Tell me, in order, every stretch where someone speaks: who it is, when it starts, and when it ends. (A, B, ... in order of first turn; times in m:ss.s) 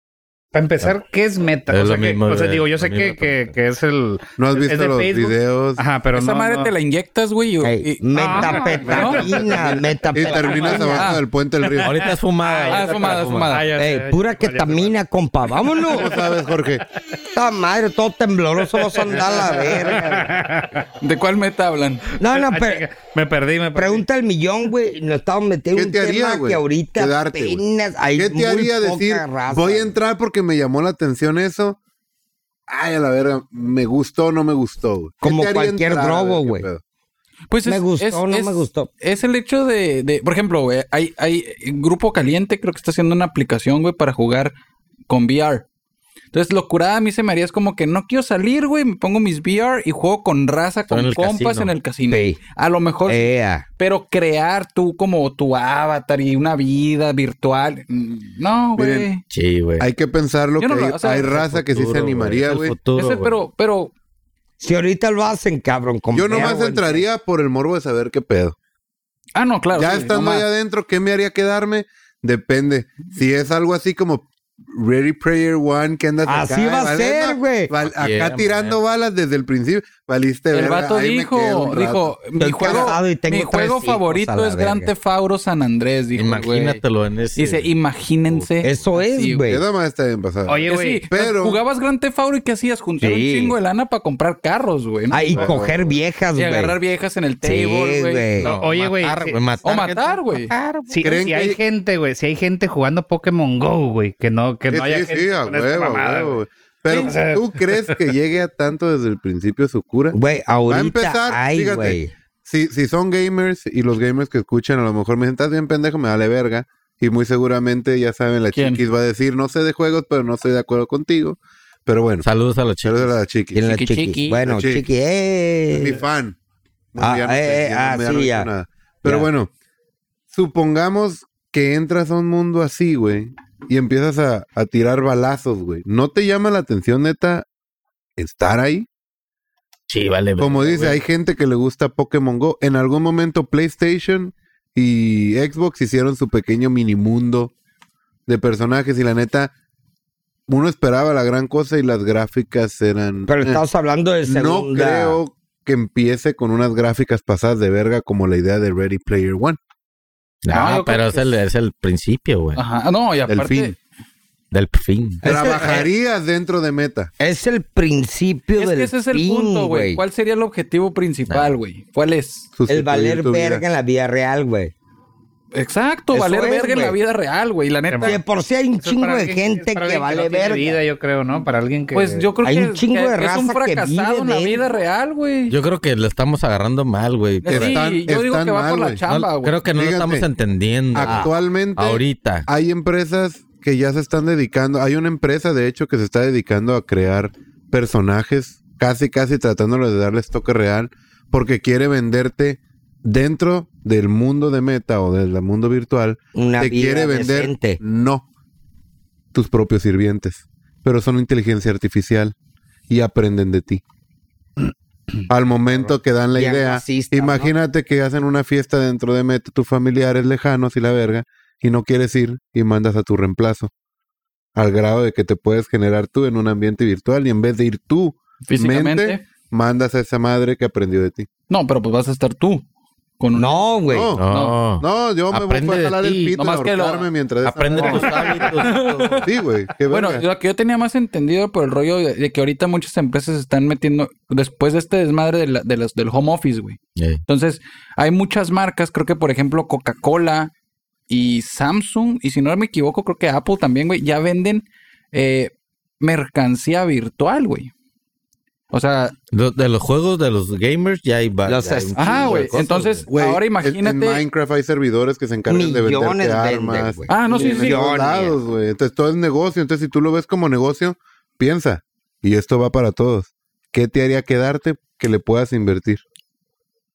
0:00.5-0:06.7 A
0:01.7-0:03.5 B
0:04.4-0:05.8 C
0:06.1-0:09.2 D
0:07.6-0:11.1 E
0:08.1-0:09.6 A
0:08.8-0:12.0 C
0:10.3-0:11.0 A
0:10.8-0:11.2 D
0:11.8-0:13.6 B
0:12.4-0:14.9 A
0:12.7-0:13.7 D
0:13.8-0:16.1 E
0:15.8-0:16.8 C
0:17.3-0:20.3 E
0:19.1-0:20.8 A
0:21.0-0:22.1 D
0:22.2-0:22.9 E
0:22.3-0:24.0 A
0:23.7-0:29.9 E
0:25.7-0:27.6 C
0:28.1-0:31.8 C
0:32.7-0:36.8 C
0:35.2-0:36.6 E
0:37.5-0:44.5 D
0:37.6-0:38.9 E
0:45.1-0:45.6 D
0:46.3-0:59.2 D
0:50.9-0:51.7 B
0:52.1-0:52.4 E
0:53.1-0:53.6 E
0:58.8-0:59.1 C
0:59.3-0:59.9 B
0:59.8-1:02.7 C
1:00.6-1:01.4 D
1:01.3-1:03.3 B
1:03.0-1:03.9 D
1:04.6-1:07.0 E
1:06.1-1:08.6 C
1:09.3-1:10.5 D
1:09.7-1:22.9 C
1:16.2-1:17.7 E
1:17.8-1:18.8 B
1:20.5-1:26.8 D
1:22.4-1:24.9 E
1:26.1-1:27.7 B
1:27.4-1:29.4 D
1:28.2-1:28.8 B
1:28.6-1:29.6 E
1:29.5-1:31.6 C
1:30.5-1:31.1 A
1:30.6-1:35.5 D
1:33.0-1:33.5 E
1:35.1-1:36.7 E
1:35.3-1:36.0 C
1:36.4-1:38.6 D
1:37.4-1:38.5 E
1:38.4-1:41.0 B
1:38.4-1:39.4 A
1:39.6-1:40.5 D
1:40.9-1:46.4 A
1:41.0-1:41.6 C
1:44.7-1:50.2 C
1:47.0-1:47.9 A
1:50.1-1:52.1 E
1:50.7-2:02.2 C
1:58.5-1:58.8 D
2:02.2-2:03.1 B
2:02.8-2:03.7 C
2:03.5-2:06.0 E
2:03.6-2:04.4 D
2:04.4-2:04.8 C
2:05.7-2:06.4 C
2:06.9-2:09.5 C
2:07.0-2:08.5 E
2:10.3-2:17.4 C
2:18.2-2:18.9 C
2:19.9-2:21.0 B
2:20.4-2:27.5 C
2:28.3-2:29.5 C
2:30.5-2:33.6 C
2:33.3-2:35.2 E
2:34.3-2:39.6 C
2:40.4-2:42.6 B
2:40.5-2:41.4 D
2:42.5-2:43.7 D
2:43.3-2:43.7 C
2:44.5-2:45.2 B
2:45.2-2:45.9 E
2:45.2-2:47.1 C
2:47.2-2:50.0 E
2:48.6-2:52.5 D
2:52.5-2:53.6 C
2:52.7-2:54.7 E
2:55.5-2:58.2 D
2:56.1-2:57.0 E
2:57.9-2:58.2 A
2:58.0-3:00.8 E
2:58.8-3:02.3 A
3:01.9-3:05.5 D
3:02.4-3:04.6 E
3:05.5-3:07.8 B
3:07.4-3:09.6 D
3:07.5-3:09.0 C
3:09.1-3:12.5 B
3:09.7-3:10.2 C
3:10.9-3:28.2 C
3:11.0-3:11.3 E
3:26.3-3:27.8 E
3:29.3-3:32.3 C
3:32.9-3:33.8 C
3:35.3-3:43.7 C
3:36.3-3:37.5 E
3:44.5-3:51.3 C
3:48.4-3:49.2 D
3:51.5-3:52.6 D
3:53.2-3:53.5 D
3:53.3-3:54.1 E
3:53.9-3:54.2 C
3:54.2-3:56.3 B
3:54.3-3:54.6 D
3:54.8-3:58.5 C
3:56.3-3:57.1 D
3:57.4-3:59.3 B
3:57.8-3:59.3 D
3:59.2-4:00.2 C
3:59.9-4:10.5 D
4:07.0-4:07.2 B
4:11.1-4:17.7 D
4:18.7-4:19.1 D
4:19.3-4:23.0 B
4:21.4-4:22.7 E
4:22.0-4:24.2 D
4:23.1-4:36.0 C
4:25.5-4:28.4 E
4:27.1-4:27.9 D